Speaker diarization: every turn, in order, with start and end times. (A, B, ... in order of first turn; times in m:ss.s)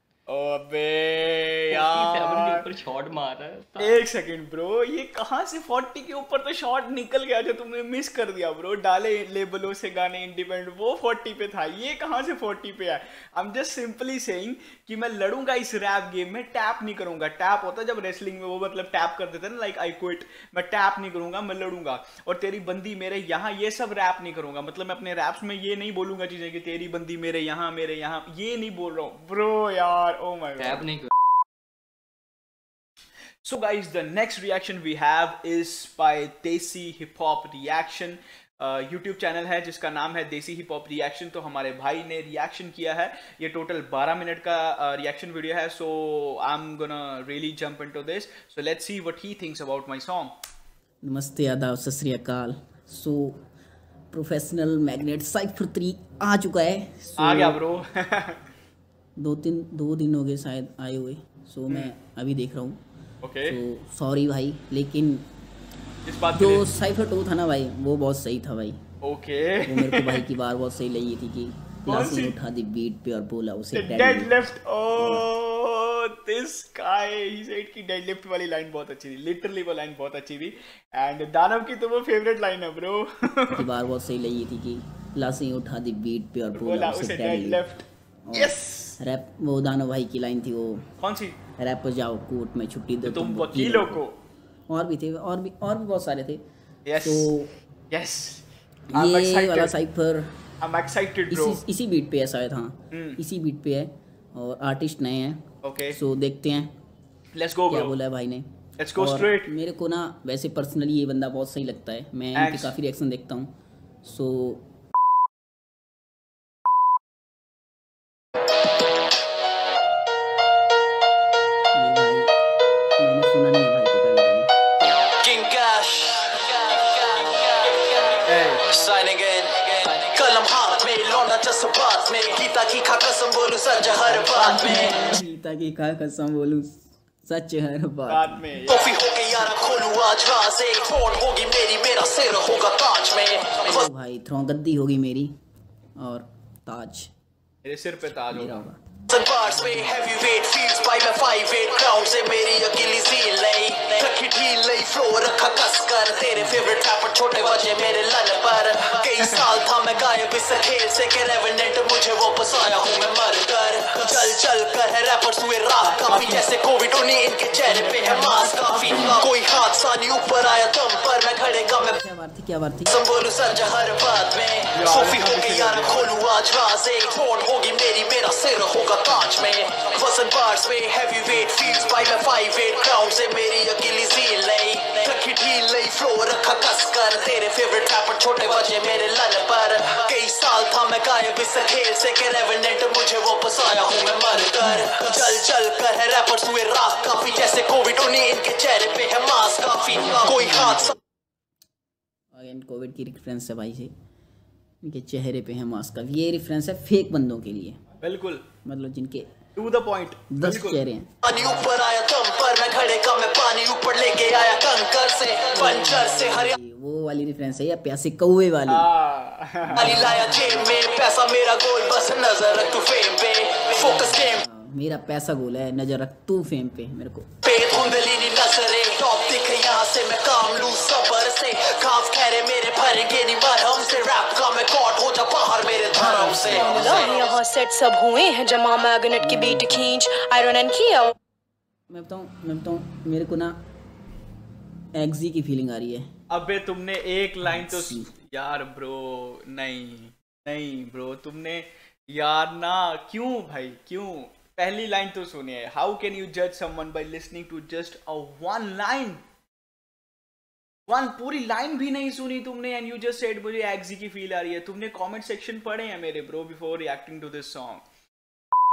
0:00.3-0:02.6 A
0:01.7-0:04.0 B
0:03.8-0:30.8 A
0:30.6-0:31.1 B
0:33.4-0:50.3 A
0:51.0-0:53.4 C
0:54.1-0:57.6 C
0:57.2-0:58.4 A
0:59.2-1:02.8 C
1:03.2-1:03.6 A
1:03.4-1:05.2 C
1:06.0-1:06.7 A
1:06.3-1:08.8 C
1:09.0-1:10.2 A
1:09.6-1:14.4 C
1:11.9-1:12.4 A
1:13.7-1:23.7 A
1:15.0-1:15.3 C
1:23.6-1:27.7 C
1:26.5-1:29.0 A
1:28.3-1:30.8 C
1:31.0-1:31.4 A
1:31.6-1:34.0 C
1:33.0-1:34.2 A
1:34.7-1:36.4 C
1:36.8-1:37.3 A
1:36.9-1:37.5 C
1:37.9-1:39.7 A
1:38.9-1:40.3 C
1:40.6-1:41.6 A
1:41.3-1:46.7 C
1:42.9-1:43.2 A
1:45.6-1:46.0 A
1:47.3-1:48.0 A
1:47.7-1:54.6 C
1:48.8-1:49.5 A
1:52.3-1:52.8 A
2:01.7-2:02.3 C
2:03.0-2:04.5 C
2:05.2-2:14.9 D
2:08.3-2:08.6 A
2:14.0-2:18.7 C
2:14.6-2:15.0 A
2:18.1-2:18.7 A
2:18.7-2:23.9 D
2:23.6-2:25.3 C
2:26.0-2:27.1 C
2:27.6-2:28.6 A
2:28.2-2:28.8 C
2:29.1-2:52.0 D
2:36.4-2:36.7 C
2:44.0-2:44.4 A
2:45.8-2:46.4 A
2:47.6-2:48.4 A
2:48.0-2:49.2 C
2:52.0-2:53.0 C
2:52.9-3:20.9 D
2:54.7-2:56.1 A
3:19.8-3:20.9 C
3:22.3-3:23.9 C
3:24.8-3:27.8 C
3:28.0-3:28.4 A
3:28.6-3:29.3 C
3:29.6-3:30.8 A
3:30.3-3:31.1 C
3:31.2-3:36.5 D
3:35.5-3:38.9 C
3:38.7-3:40.1 A
3:39.6-3:40.8 C
3:39.8-3:44.4 D
3:43.8-3:47.2 C
3:47.4-3:57.2 D
3:56.0-4:01.1 E
3:56.1-3:56.9 C
3:56.4-3:57.1 A
3:59.2-3:59.9 C
4:01.9-4:03.6 C
4:05.0-4:06.1 C
4:06.3-4:19.2 A
4:07.4-4:08.1 C
4:20.9-4:27.8 A